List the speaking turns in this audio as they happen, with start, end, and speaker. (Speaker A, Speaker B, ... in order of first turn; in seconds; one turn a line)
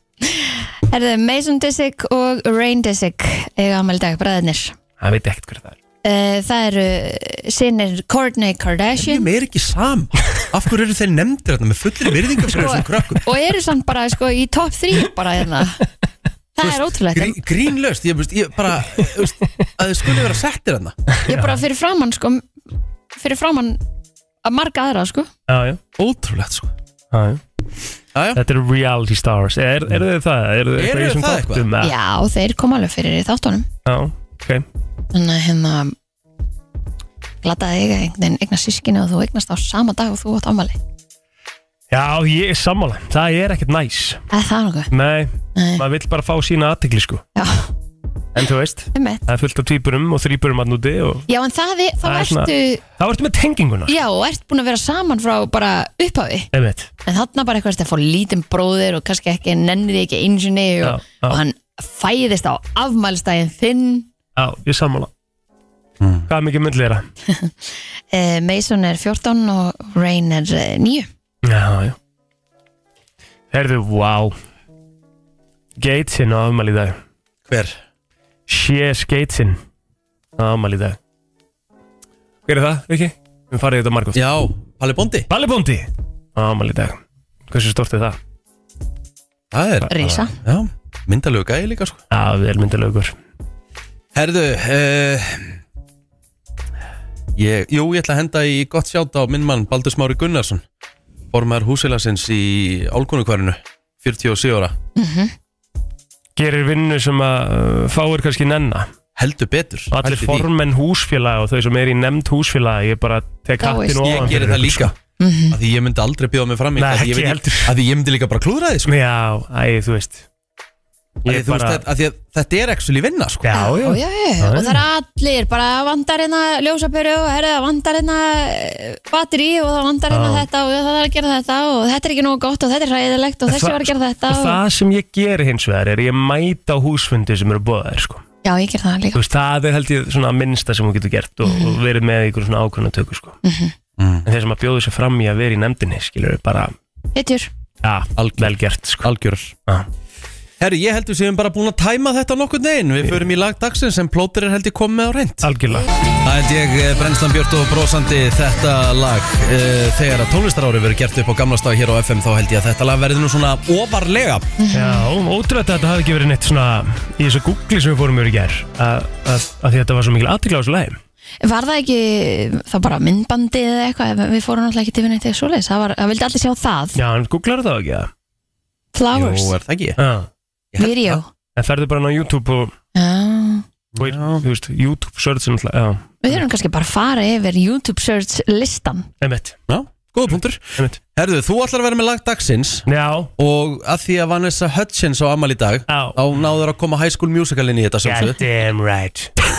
Speaker A: 0.3-4.8
Speaker B: 5.0-5.8
Speaker A: 6.0-9.3
Speaker C: 9.0-13.2
Speaker A: 12.5-15.8
Speaker A: 16.6-17.4
Speaker C: 16.6-21.0
Speaker B: 21.3-21.6
Speaker A: 21.3-22.5
Speaker A: 23.1-23.8
Speaker A: 24.4-25.3
Speaker B: 25.5-25.8
Speaker C: 26.0-26.7
Speaker B: 27.1-27.4
Speaker C: 28.1-28.4
Speaker B: 28.4-31.9
Speaker C: 30.8-31.7
Speaker A: 31.8-33.7
Speaker B: 33.9-34.6
Speaker A: 35.1-35.9
Speaker A: 37.4-40.8
Speaker B: 41.9-44.2
Speaker A: 44.3-44.9
Speaker B: 44.9-47.2
Speaker A: 45.6-45.8
Speaker A: 47.4-47.7
Speaker B: 48.4-51.3
Speaker A: 48.9-49.2
Speaker A: 51.3-52.8
Speaker B: 52.0-53.9
Speaker A: 53.9-56.5
Speaker B: 56.5-56.9
Speaker A: 57.0-64.1
Speaker B: 60.8-61.4
Speaker B: 64.4-65.1
Speaker C: 66.0-66.3
Speaker B: 66.3-67.0
Speaker A: 67.3-71.1
Speaker B: 71.4-72.0
Speaker B: 73.5-74.3
Speaker B: 75.8-77.0
Speaker C: 77.5-77.8
Speaker B: 78.5-79.6
Speaker B: 80.4-81.0
Speaker B: 82.5-84.2
Speaker C: 84.1-85.3
Speaker B: 85.3-87.0
Speaker B: 87.5-88.2
Speaker C: 89.5-92.0
Speaker A: 89.9-90.3
Speaker B: 92.1-93.1
Speaker C: 94.1-95.6
Speaker C: 97.3-100.6
Speaker C: 101.3-104.8
Speaker A: 105.0-105.3
Speaker B: 106.4-108.9
Speaker C: 109.2-110.5
Speaker B: 109.9-114.9
Speaker A: 113.6-114.3
Speaker C: 114.0-114.9
Speaker A: 115.2-115.6
Speaker C: 115.5-118.9
Speaker B: 116.8-117.7
Speaker B: 118.9-120.2
Speaker C: 121.2-123.5
Speaker B: 121.2-121.8
Speaker B: 123.4-124.8
Speaker A: 123.5-134.6
Speaker B: 130.1-130.4
Speaker B: 133.5-138.2
Speaker A: 138.4-139.2
Speaker B: 139.1-143.4
Speaker A: 141.4-141.8
Speaker A: 143.4-143.7
Speaker C: 144.0-144.3
Speaker B: 144.3-146.7
Speaker A: 147.1-147.5
Speaker B: 147.8-149.1
Speaker C: 148.2-149.6
Speaker C: 150.6-155.5
Speaker B: 155.4-155.9
Speaker C: 156.2-164.5
Speaker A: 164.6-165.1
Speaker B: 164.7-171.0
Speaker A: 171.4-177.0
Speaker B: 176.9-178.1
Speaker A: 178.9-179.5
Speaker C: 179.1-180.0
Speaker B: 180.0-180.3
Speaker C: 180.7-181.2
Speaker A: 180.8-181.3
Speaker B: 181.6-182.7
Speaker A: 182.9-183.6
Speaker C: 183.9-184.4
Speaker B: 184.0-186.4
Speaker A: 186.2-189.1
Speaker B: 189.2-189.6
Speaker C: 189.7-192.9
Speaker B: 192.9-193.3
Speaker C: 193.4-198.4
Speaker B: 195.9-196.2
Speaker B: 198.0-199.3